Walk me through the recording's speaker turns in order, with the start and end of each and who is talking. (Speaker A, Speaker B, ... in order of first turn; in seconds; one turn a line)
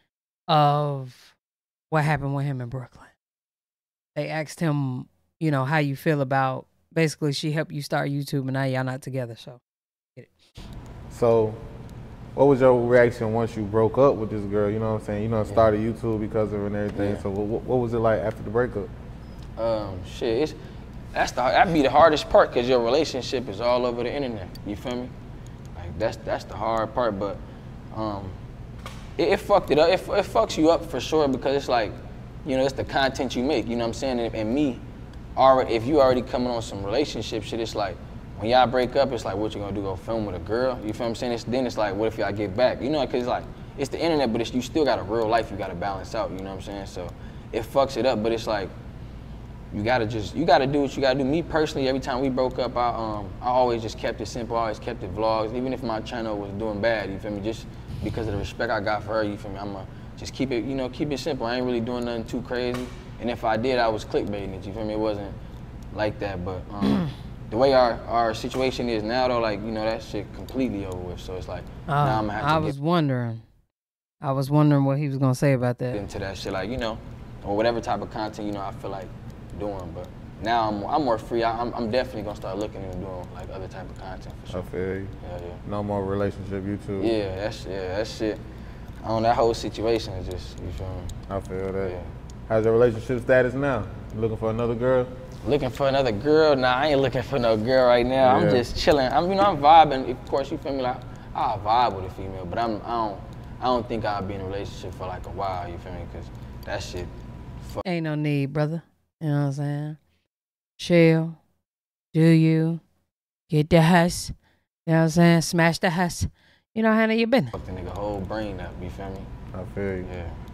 Speaker A: 0.5-1.3
Speaker A: 1.9-3.1
Speaker A: 4.2-9.6
Speaker B: 11.1-11.6
Speaker B: 12.3-18.9
Speaker C: 16.9-17.2
Speaker C: 19.6-20.6
Speaker C: 21.1-25.1
Speaker C: 25.8-27.4
Speaker C: 27.9-28.4
Speaker C: 29.2-34.8
Speaker C: 35.4-48.7
Speaker C: 49.7-65.3
Speaker C: 65.9-72.7
Speaker A: 71.9-73.4
Speaker A: 74.2-76.0
Speaker C: 75.9-84.7
Speaker B: 84.5-85.1
Speaker C: 85.2-85.6
Speaker B: 85.7-87.2
Speaker C: 87.0-88.4
Speaker C: 89.0-91.2
Speaker B: 91.3-92.0
Speaker C: 91.8-92.1
Speaker B: 92.5-95.1
Speaker C: 95.4-107.8
Speaker B: 98.2-98.7
Speaker A: 107.8-110.0
Speaker A: 110.8-111.4
Speaker A: 112.1-112.8
Speaker A: 113.5-114.3
Speaker A: 114.9-117.5
Speaker C: 117.5-119.3
Speaker B: 119.5-120.1
Speaker C: 120.0-120.4